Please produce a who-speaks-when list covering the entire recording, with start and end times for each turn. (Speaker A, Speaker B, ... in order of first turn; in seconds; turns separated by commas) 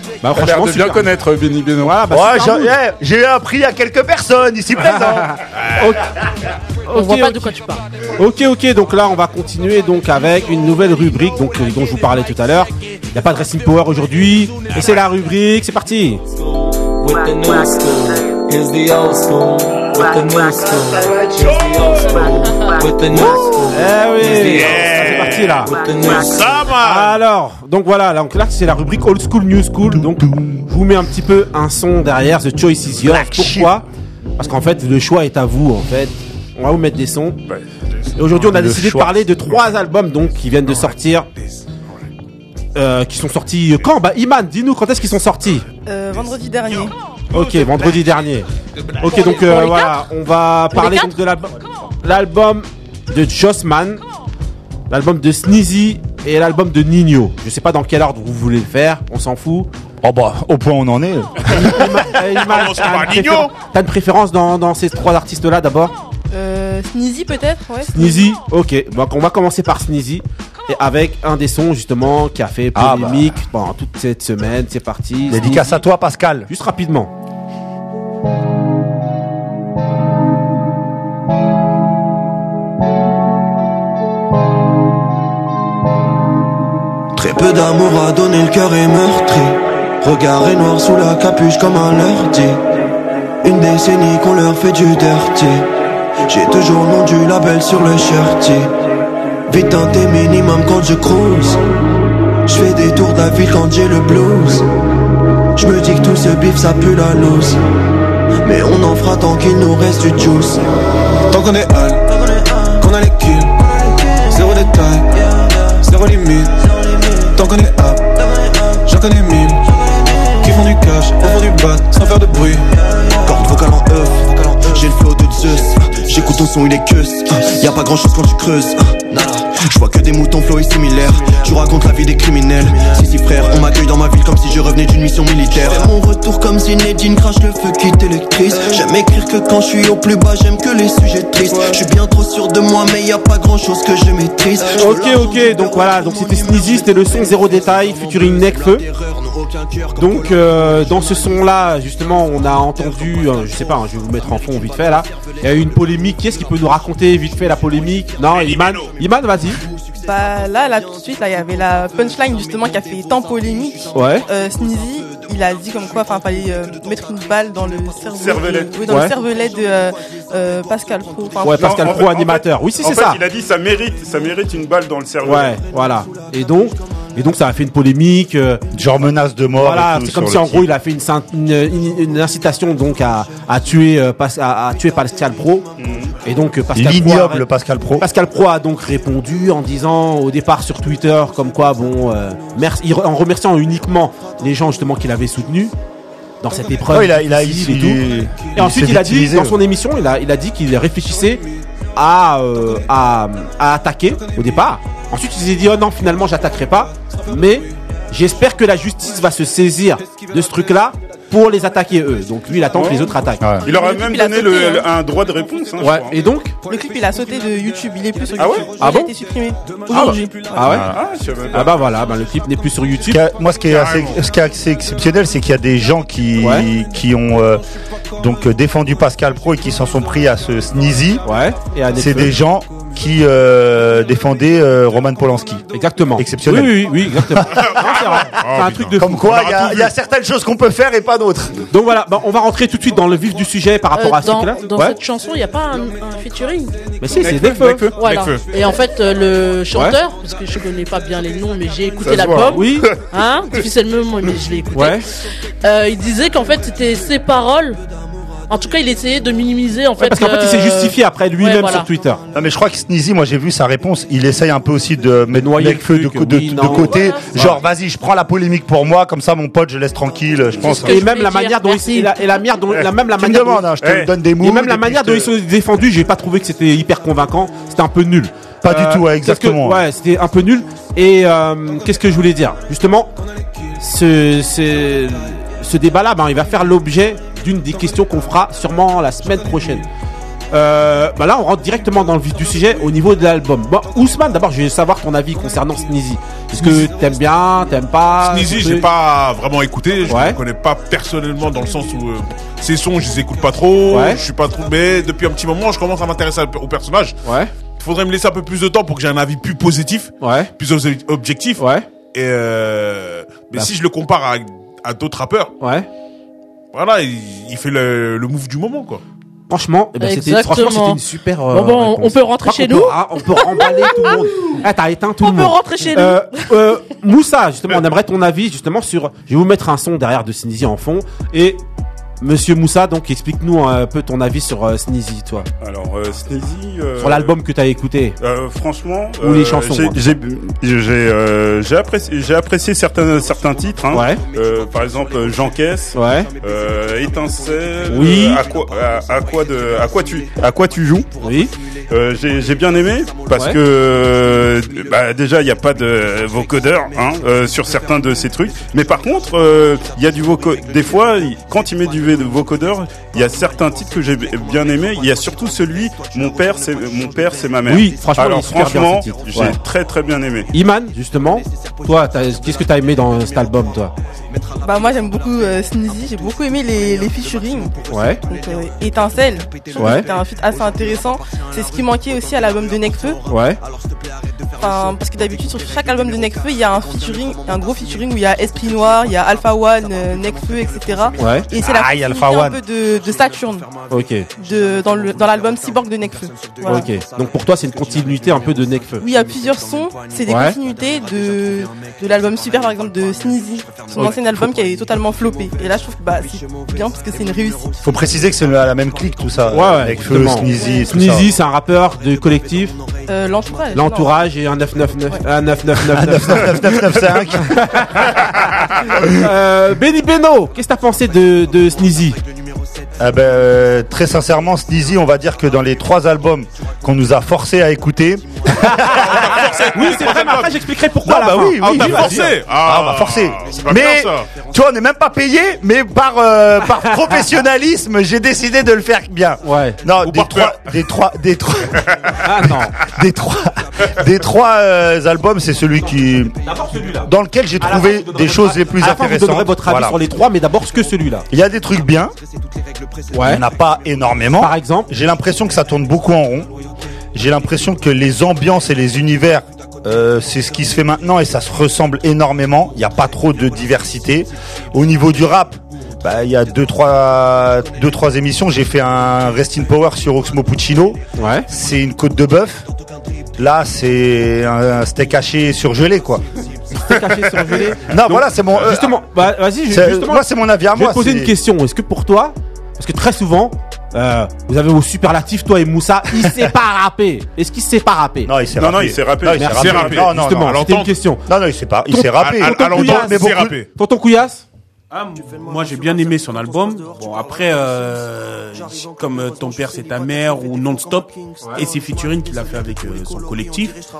Speaker A: 0.2-1.1, Speaker B: 0.3-2.0, Speaker A: 1.8-2.7, Speaker C: 2.1-5.4, Speaker A: 4.9-6.1, Speaker A: 6.9-7.5, Speaker D: 6.9-7.8, Speaker A: 8.2-16.2, Speaker E: 16.3-26.6, Speaker A: 23.1-25.7, Speaker F: 24.6-27.2, Speaker A: 26.8-33.9, Speaker C: 30.0-30.6, Speaker C: 33.0-33.8, Speaker A: 34.4-37.4, Speaker A: 38.2-41.3, Speaker C: 38.4-39.2, Speaker F: 40.6-41.6, Speaker A: 42.7-45.6, Speaker G: 45.9-46.9, Speaker F: 46.1-48.2, Speaker A: 47.3-48.5, Speaker F: 48.8-49.1, Speaker A: 49.0-54.0, Speaker D: 49.1-50.0, Speaker D: 50.7-51.1, Speaker A: 54.9-59.7, Speaker C: 60.0-62.1, Speaker A: 61.5-65.9, Speaker F: 62.3-63.5, Speaker G: 66.3-68.3, Speaker A: 67.9-75.8, Speaker C: 72.7-73.4, Speaker C: 75.3-76.5, Speaker A: 76.5-77.1, Speaker H: 87.2-92.6, Speaker H: 93.4-95.7, Speaker H: 96.2-98.7, Speaker H: 99.5-101.6, Speaker H: 102.5-104.7, Speaker H: 105.5-107.6, Speaker H: 108.4-110.6, Speaker I: 111.3-112.2, Speaker I: 112.8-115.1, Speaker I: 115.8-116.6, Speaker I: 117.3-118.2, Speaker I: 118.8-119.7, Speaker I: 120.4-122.7, Speaker H: 123.2-150.6, Speaker G: 141.4-141.8, Speaker A: 144.7-148.9, Speaker A: 149.9-159.6, Speaker F: 158.2-158.9, Speaker G: 160.0-171.9, Speaker A: 163.9-164.2, Speaker B: 168.1-168.7, Speaker A: 168.9-169.1, Speaker A: 171.4-173.2, Speaker B: 171.5-175.6, Speaker A: 175.2-178.6, Speaker C: 178.7-180.6, Speaker A: 179.6-185.7, Speaker B: 185.8-186.2, Speaker A: 186.2-187.5, Speaker C: 186.7-188.1, Speaker A: 188.0-195.7, Speaker A: 196.4-198.0, Speaker C: 196.9-199.6, Speaker A: 198.5-201.4, Speaker A: 201.9-213.5, Speaker B: 212.7-216.2, Speaker C: 213.4-213.7, Speaker G: 213.6-214.9, Speaker A: 215.8-216.5, Speaker G: 216.6-220.8, Speaker B: 218.4-218.7, Speaker A: 218.4-219.1, Speaker A: 219.9-220.9, Speaker B: 220.6-221.8, Speaker A: 221.5-223.2, Speaker C: 223.1-227.6, Speaker F: 223.7-224.2, Speaker A: 226.4-226.7, Speaker C: 228.2-231.2, Speaker A: 231.2-232.3, Speaker C: 231.9-235.6, Speaker A: 235.7-239.5, Speaker C: 236.2-238.2, Speaker F: 237.5-239.8, Speaker C: 239.0-241.6, Speaker A: 241.7-245.0, Speaker D: 243.9-246.8, Speaker A: 247.0-247.9, Speaker B: 247.2-247.9, Speaker D: 247.9-255.1, Speaker F: 248.0-248.5, Speaker A: 249.7-250.0, Speaker B: 252.0-253.0, Speaker A: 252.5-252.9, Speaker A: 254.7-255.1, Speaker D: 255.6-257.8, Speaker D: 258.5-261.9, Speaker A: 260.0-262.2, Speaker C: 262.3-270.9, Speaker A: 265.3-267.5, Speaker D: 266.7-267.5, Speaker D: 270.6-272.4, Speaker A: 270.8-273.7, Speaker C: 273.1-275.3, Speaker B: 273.8-274.1, Speaker A: 274.4-283.1, Speaker C: 278.6-279.8, Speaker A: 283.8-289.9, Speaker A: 290.5-298.9, Speaker F: 296.6-296.9, Speaker F: 298.2-307.2, Speaker A: 300.1-300.4, Speaker A: 303.9-304.2, Speaker A: 307.2-307.5, Speaker F: 307.8-315.5, Speaker A: 310.2-310.5, Speaker A: 311.6-311.9, Speaker A: 315.6-315.9, Speaker F: 316.7-319.0, Speaker A: 319.5-331.6, Speaker D: 320.0-324.3, Speaker D: 325.2-326.5, Speaker A: 332.2-335.5, Speaker B: 335.6-337.4, Speaker A: 337.0-338.2, Speaker B: 338.2-351.1, Speaker A: 339.2-340.1, Speaker A: 343.9-344.2, Speaker A: 345.9-346.3, Speaker A: 347.9-348.4, Speaker A: 351.2-351.5, Speaker B: 351.9-370.5, Speaker A: 353.3-353.6, Speaker A: 367.6-369.6, Speaker A: 370.5-373.9, Speaker G: 374.6-383.2, Speaker A: 377.9-378.2, Speaker A: 379.8-380.1, Speaker A: 383.3-383.6, Speaker G: 384.6-393.7, Speaker A: 391.2-391.5, Speaker C: 391.6-392.6, Speaker A: 393.9-394.3, Speaker G: 394.4-396.9, Speaker A: 396.6-399.1, Speaker G: 399.0-407.8, Speaker A: 400.3-400.6, Speaker A: 403.9-404.5, Speaker C: 407.8-411.3, Speaker A: 409.5-412.8, Speaker G: 413.1-414.1, Speaker A: 413.7-418.2, Speaker C: 415.9-419.1, Speaker A: 419.0-422.2, Speaker C: 423.0-429.7, Speaker A: 428.5-432.3, Speaker F: 429.0-430.6, Speaker C: 431.0-446.4, Speaker F: 431.5-434.3, Speaker A: 436.9-437.2, Speaker A: 439.4-439.8, Speaker F: 440.0-440.7, Speaker A: 442.2-442.8, Speaker A: 446.4-451.2, Speaker C: 447.0-450.0, Speaker C: 451.3-452.1, Speaker A: 453.1-453.4, Speaker C: 453.2-456.5, Speaker A: 454.4-454.9, Speaker C: 457.1-472.6, Speaker A: 471.2-471.5, Speaker C: 473.4-476.2, Speaker A: 476.7-488.3, Speaker C: 477.8-479.0, Speaker C: 479.7-481.3, Speaker C: 488.2-490.6, Speaker B: 488.6-489.8, Speaker A: 489.3-491.2, Speaker F: 489.5-490.9, Speaker C: 491.3-493.6, Speaker A: 491.9-494.4, Speaker F: 492.1-493.7, Speaker J: 494.9-503.8